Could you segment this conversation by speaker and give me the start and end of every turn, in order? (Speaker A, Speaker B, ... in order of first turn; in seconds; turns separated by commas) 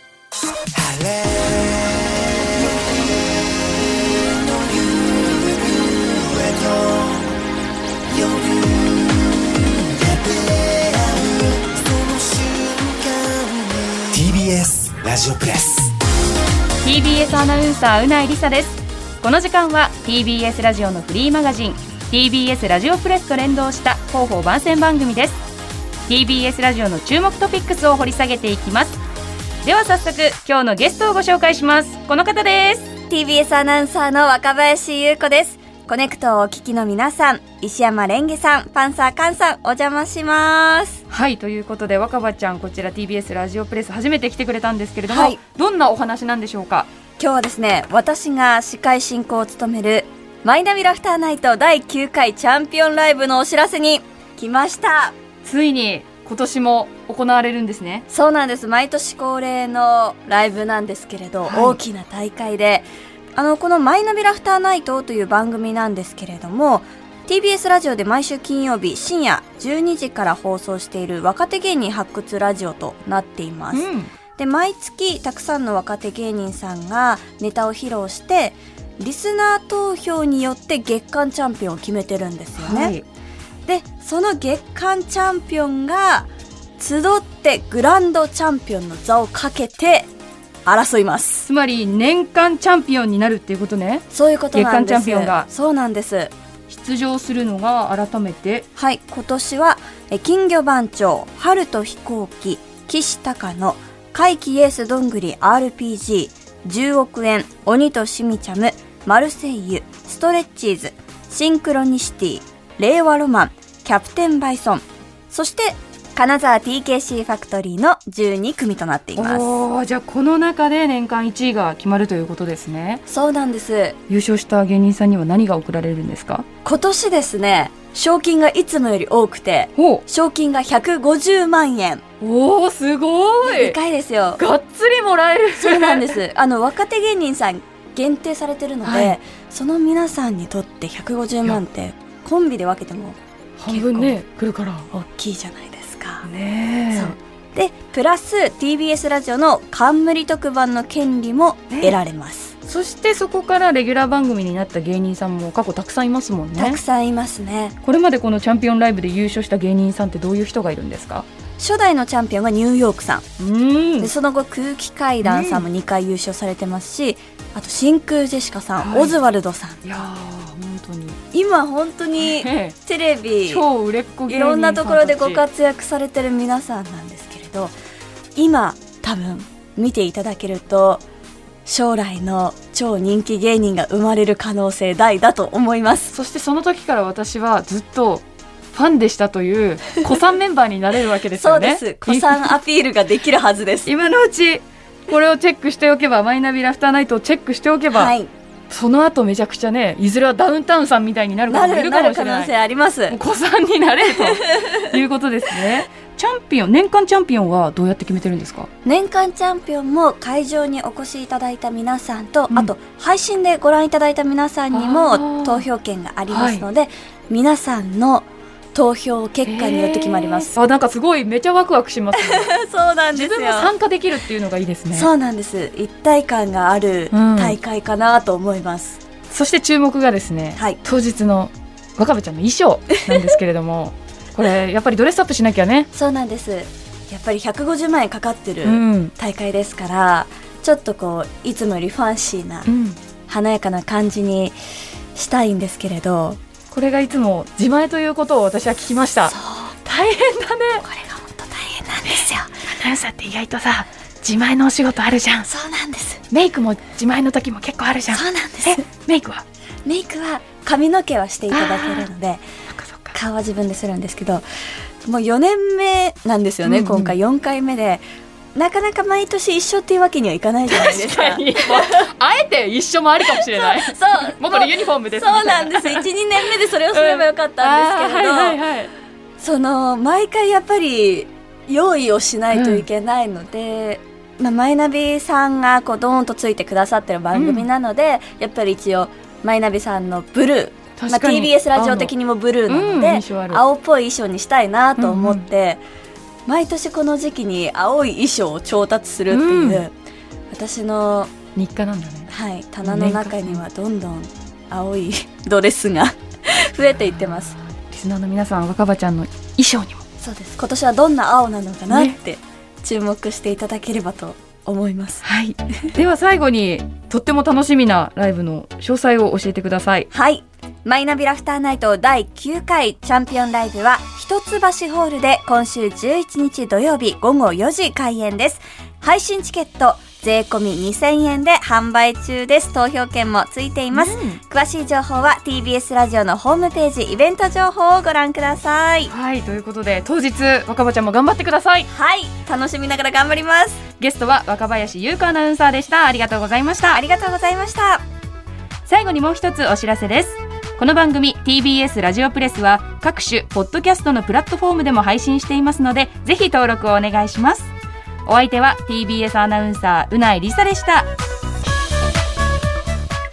Speaker A: 0.7-7.3, Speaker A: 8.1-15.9, Speaker B: 16.8-25.4, Speaker B: 26.1-29.0, Speaker B: 29.6-32.9, Speaker C: 33.1-41.0, Speaker B: 41.1-46.9, Speaker C: 45.1-45.4, Speaker C: 47.2-55.1, Speaker B: 55.4-58.0, Speaker C: 58.1-73.8, Speaker B: 61.5-61.8, Speaker B: 73.7-74.1, Speaker C: 74.3-82.9, Speaker B: 82.6-83.0, Speaker C: 83.7-90.1, Speaker C: 90.7-91.5, Speaker B: 91.5-95.5, Speaker C: 94.1-96.3, Speaker B: 96.7-98.7, Speaker C: 98.8-119.6, Speaker B: 119.2-123.0, Speaker C: 123.1-124.0, Speaker B: 124.1-126.5, Speaker C: 126.6-132.0, Speaker B: 129.8-130.0, Speaker B: 132.2-133.8, Speaker C: 133.4-134.4, Speaker B: 134.4-136.2, Speaker C: 135.6-143.2, Speaker B: 138.8-139.2, Speaker B: 143.6-144.9, Speaker C: 143.7-144.2, Speaker C: 144.9-146.3, Speaker B: 146.2-147.2, Speaker C: 146.9-152.5, Speaker B: 152.7-156.8, Speaker C: 156.6-157.8, Speaker B: 157.8-161.2, Speaker C: 161.6-163.2, Speaker B: 163.4-164.1, Speaker C: 164.0-170.0, Speaker B: 165.2-165.7, Speaker B: 168.8-169.1, Speaker B: 169.8-171.2, Speaker C: 171.3-173.6, Speaker B: 172.2-172.8, Speaker B: 173.5-175.4, Speaker C: 174.3-177.7, Speaker C: 178.3-181.0, Speaker C: 181.6-186.1, Speaker B: 186.1-192.5, Speaker C: 191.3-193.9, Speaker B: 193.8-198.1, Speaker C: 197.9-198.3, Speaker B: 198.7-202.5, Speaker C: 201.5-203.2, Speaker B: 203.1-208.7, Speaker C: 204.1-204.9, Speaker C: 208.8-220.5, Speaker B: 214.7-215.6, Speaker B: 216.3-216.6, Speaker B: 219.4-222.5, Speaker C: 222.1-223.7, Speaker B: 223.1-225.1, Speaker C: 224.9-229.0, Speaker B: 227.1-227.6, Speaker B: 229.3-235.9, Speaker C: 235.9-242.7, Speaker B: 238.6-239.1, Speaker B: 242.7-243.0, Speaker C: 243.3-244.6, Speaker C: 245.1-246.4, Speaker B: 246.7-249.3, Speaker C: 249.2-249.8, Speaker B: 249.8-250.8, Speaker C: 250.8-252.5, Speaker B: 252.1-255.5, Speaker C: 255.4-256.2, Speaker B: 256.3-259.4, Speaker C: 258.1-258.9, Speaker C: 259.9-262.4, Speaker B: 261.5-262.1, Speaker B: 262.7-263.1, Speaker C: 263.1-264.4, Speaker C: 265.0-268.0, Speaker B: 266.6-267.1, Speaker C: 268.5-272.0, Speaker B: 270.7-278.9, Speaker C: 273.2-278.6, Speaker C: 279.4-295.8, Speaker B: 282.5-282.9, Speaker B: 287.3-287.6, Speaker B: 291.0-292.1, Speaker B: 292.7-293.6, Speaker B: 295.0-295.4, Speaker C: 296.5-299.9, Speaker B: 299.3-299.8, Speaker C: 300.5-301.3, Speaker B: 301.6-302.3, Speaker C: 302.3-307.5, Speaker B: 302.8-303.6, Speaker B: 307.3-310.0, Speaker C: 310.2-315.2, Speaker B: 311.9-312.1, Speaker B: 315.2-320.1, Speaker C: 320.1-339.1, Speaker B: 333.9-334.4, Speaker B: 339.1-341.9, Speaker C: 341.9-343.8, Speaker B: 344.0-347.0, Speaker C: 346.9-348.0, Speaker B: 348.9-357.7, Speaker B: 358.2-361.1